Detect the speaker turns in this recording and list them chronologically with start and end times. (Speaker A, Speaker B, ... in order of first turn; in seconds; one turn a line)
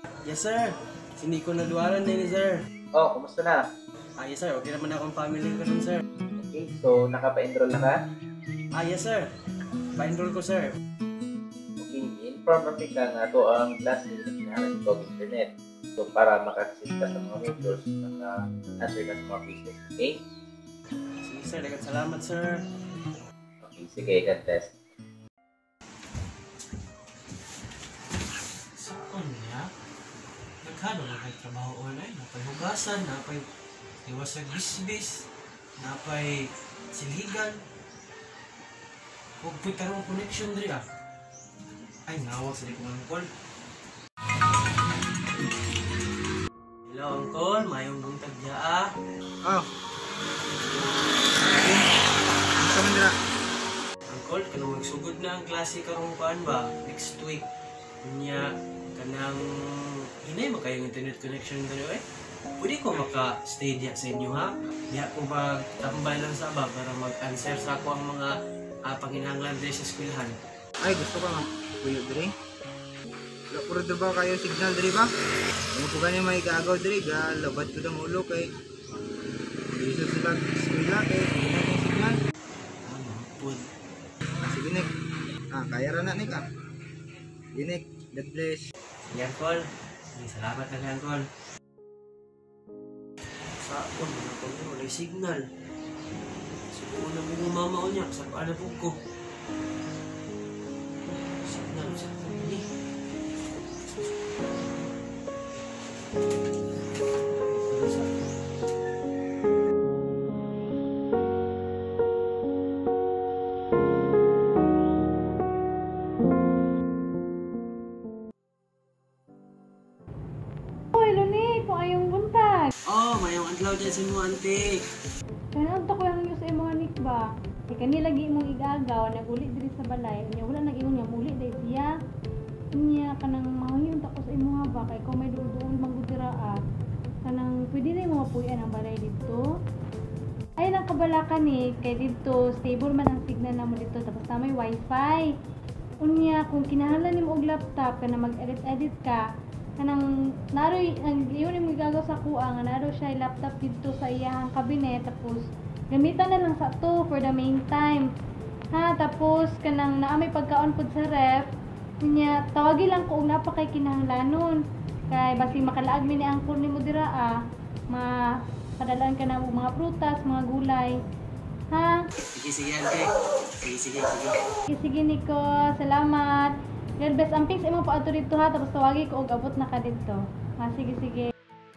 Speaker A: 0.2-2.6
Speaker B: 2.9-3.6
Speaker A: 4.2-6.0
Speaker B: 6.4-8.0
Speaker A: 8.7-9.3
Speaker A: 9.9-10.7
Speaker B: 11.8-20.2
Speaker A: 21.2-22.6
Speaker B: 23.6-24.7
Speaker A: 28.8-29.7
Speaker A: 30.6-33.4
Speaker A: 34.0-35.2
Speaker A: 35.8-37.6
Speaker A: 39.4-40.8
Speaker A: 42.1-43.3
Speaker A: 46.9-48.9
Speaker C: 51.4-51.8
Speaker C: 52.6-53.1
Speaker A: 54.1-57.4
Speaker A: 58.0-62.0
Speaker A: 62.6-68.3
Speaker A: 68.9-70.4
Speaker C: 70.8-72.3
Speaker C: 73.5-75.1
Speaker C: 75.7-78.5
Speaker C: 79.7-82.2
Speaker A: 82.9-83.7
Speaker C: 84.4-84.9
Speaker C: 85.5-86.4
Speaker C: 87.5-88.6
Speaker A: 89.1-89.6
Speaker A: 90.2-91.3
Speaker A: 93.6-95.4
Speaker A: 96.7-99.0
Speaker A: 101.4-102.6
Speaker A: 103.8-104.1
Speaker A: 107.3-108.1
Speaker D: 120.9-122.7
Speaker A: 122.9-124.8
Speaker D: 125.5-131.9
Speaker D: 132.8-136.6
Speaker D: 137.2-139.4
Speaker D: 140.6-145.3
Speaker D: 146.0-149.2
Speaker D: 150.5-158.0
Speaker D: 158.7-161.5
Speaker D: 162.0-164.6
Speaker D: 165.1-167.4
Speaker D: 168.8-170.9
Speaker D: 171.7-172.0
Speaker A: 172.3-174.4
Speaker D: 174.7-181.3